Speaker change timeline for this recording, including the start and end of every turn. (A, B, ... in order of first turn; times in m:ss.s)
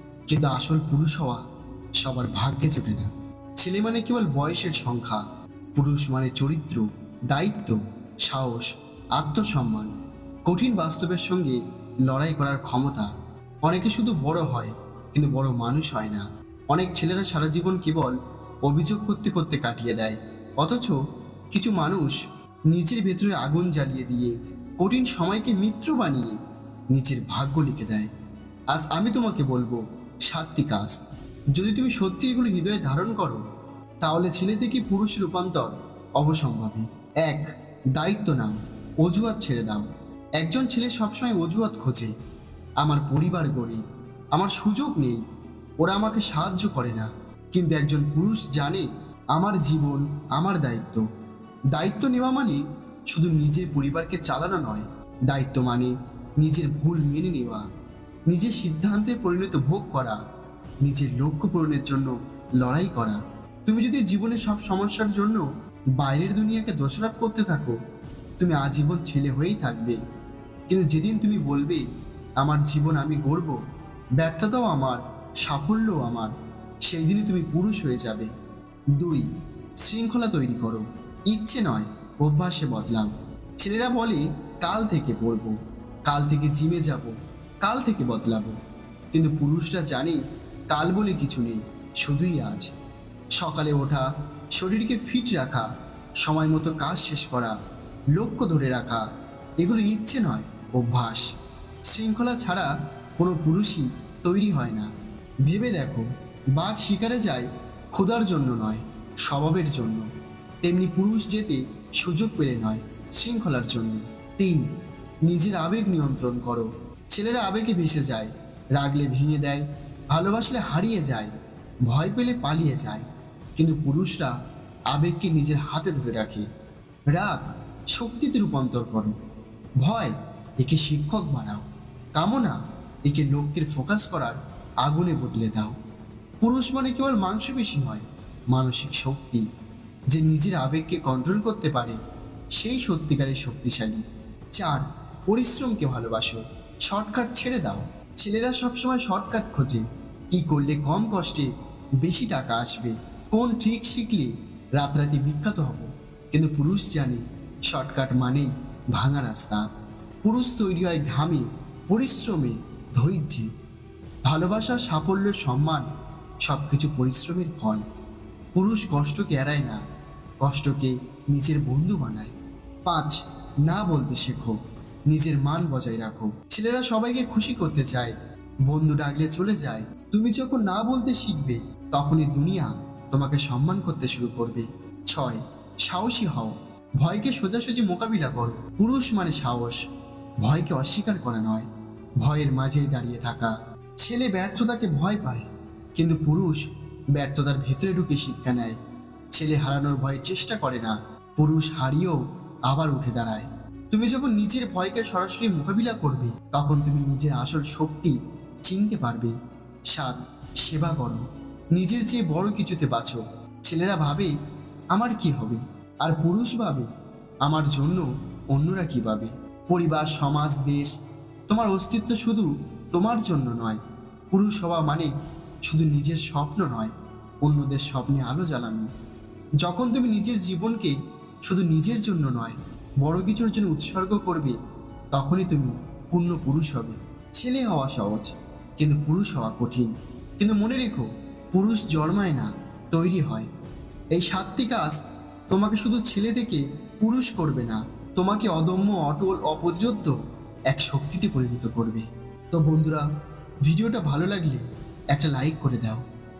0:00.3-0:01.4 A
0:02.0-0:05.2 A
0:05.8-0:09.9 A
0:10.4-0:13.1 A
0:13.6-0:18.1 A
0:18.6-0:20.9 A
0:21.5-0:22.1 A
0:22.7-0:26.4 A
0:26.9-0:28.1 A
0:28.7-0:30.9 A
0:31.5-0:33.4 A
0:34.0-0:39.9 A
0:40.4-0:42.1 A
0:42.8-0:43.8 A
0:44.3-0:45.2 A
0:45.8-0:51.0 A
0:51.7-0:57.6 A
0:58.3-1:00.2 A
1:00.8-1:05.4 A
1:06.0-1:07.8 A
1:08.4-1:10.0 A
1:10.7-1:11.8 A
1:12.4-1:13.6 A
1:14.2-1:16.3 A
1:16.8-1:18.3 A
1:19.0-1:19.2 A
1:19.8-1:25.5 A
1:26.0-1:27.1 A
1:27.6-1:28.6 A
1:29.1-1:30.2 A
1:30.7-1:32.7 A
1:33.4-1:35.7 A
1:36.2-1:37.5 A
1:38.1-1:39.0 A
1:39.6-1:41.2 A
1:41.9-1:44.9 A
1:45.4-1:50.0 A
1:50.6-1:54.6 A
1:55.2-2:01.3 A
2:01.9-2:03.0 A
2:03.6-2:04.3 A
2:04.9-2:06.4 A
2:07.1-2:09.1 A
2:09.8-2:15.8 A
2:16.4-2:19.4 A
2:20.1-2:22.0 A
2:22.6-2:24.0 A
2:24.5-2:31.5 A
2:32.0-2:39.6 A
2:40.2-2:43.5 A
2:44.3-2:45.8 A
2:46.4-2:47.8 A
2:48.5-2:49.8 A
2:50.4-2:52.3 A
2:52.8-2:54.6 A
2:55.1-2:58.1 A
2:58.7-3:09.8 A
3:10.4-3:11.7 A
3:12.2-3:18.8 A
3:19.3-3:29.3 A
3:29.9-3:34.3 A
3:34.9-3:36.9 A
3:37.4-3:40.9 A
3:41.5-3:43.8 A
3:44.3-3:45.1 A
3:45.6-3:48.9 A
3:49.6-3:54.6 A
3:55.1-4:03.5 A
4:04.1-4:04.9 A
4:05.5-4:10.1 A
4:10.7-4:13.0 A
4:13.6-4:16.0 A